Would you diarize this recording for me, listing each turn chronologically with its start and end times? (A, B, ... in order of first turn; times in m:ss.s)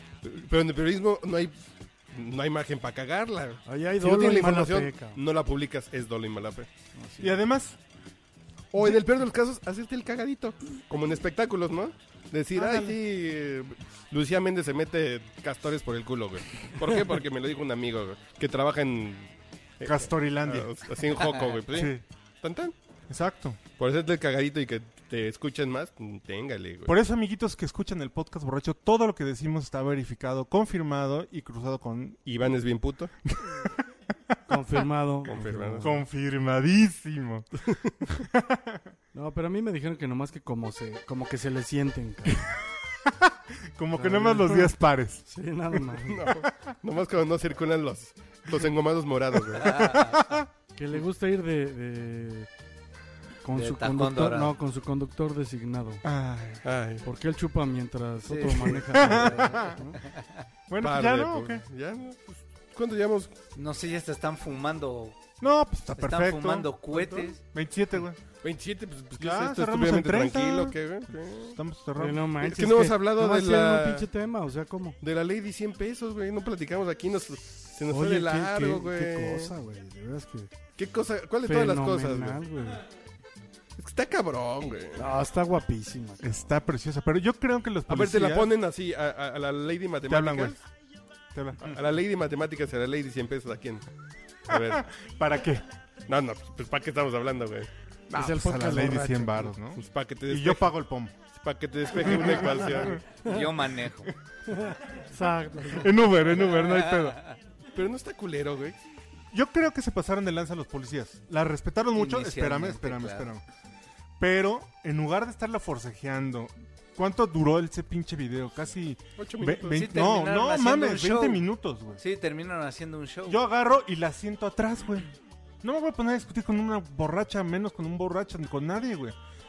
0:00.2-0:01.5 A
0:02.1-0:06.7 A
0:03.6-0:05.2 B
0:06.9-0:07.4 B
0:07.2-0:07.8 C
0:08.7-0:22.7 A
0:08.8-0:09.0 C
0:12.5-0:13.0 C
0:19.8-0:20.7 C
0:21.7-0:22.0 C
0:23.1-0:23.6 C
0:23.8-0:26.9 A
0:26.9-0:32.2 C
0:32.2-0:33.1 A
0:33.2-0:34.3 C
0:34.5-0:36.0 B
0:35.2-0:35.9 A
0:35.8-0:37.5 C
0:37.6-0:38.0 A
0:38.1-0:38.9 C
0:39.1-0:42.5 B
0:43.0-0:45.2 C
0:44.0-0:44.7 B
0:45.2-0:46.3 B
0:46.0-0:49.9 A
0:49.5-0:50.5 C
0:49.6-0:50.2 D
0:50.7-0:52.5 B
0:53.4-0:56.0 B
0:53.5-0:54.5 D
0:56.0-0:56.6 C
0:56.6-0:57.0 A
0:57.0-1:00.0 B
0:58.3-1:00.4 D
0:58.9-0:59.8 C
1:00.7-1:01.6 C
1:00.8-1:03.3 A
1:03.5-1:05.2 D
1:05.4-1:08.2 C
1:06.0-1:07.4 D
1:08.4-1:11.6 A
1:09.2-1:10.8 C
1:11.5-1:12.3 C
1:12.0-1:15.0 B
1:12.4-1:14.1 A
1:15.0-1:19.5 A
1:17.9-1:20.5 B
1:20.8-1:22.4 A
1:21.4-1:22.8 B
1:23.8-1:25.1 A
1:25.0-1:26.3 B
1:26.2-1:28.5 C
1:27.9-1:30.6 A
1:30.1-1:30.6 C
1:31.3-1:31.8 C
1:31.6-1:33.8 A
1:34.5-1:34.8 A
1:34.5-1:35.6 C
1:36.1-1:37.7 A
1:38.1-1:41.1 C
1:38.1-1:39.5 B
1:39.7-1:40.7 A
1:41.3-1:43.0 A
1:42.0-1:42.9 C
1:43.1-1:44.1 D
1:44.4-1:45.9 B
1:45.7-1:47.2 C
1:46.5-1:47.4 D
1:47.7-1:48.8 A
1:49.3-1:53.4 C
1:51.9-1:53.3 D
1:54.2-2:02.0 C
1:59.2-1:59.9 A
1:59.7-2:01.4 D
2:02.0-2:03.4 D
2:03.3-2:05.1 C
2:05.6-2:09.2 C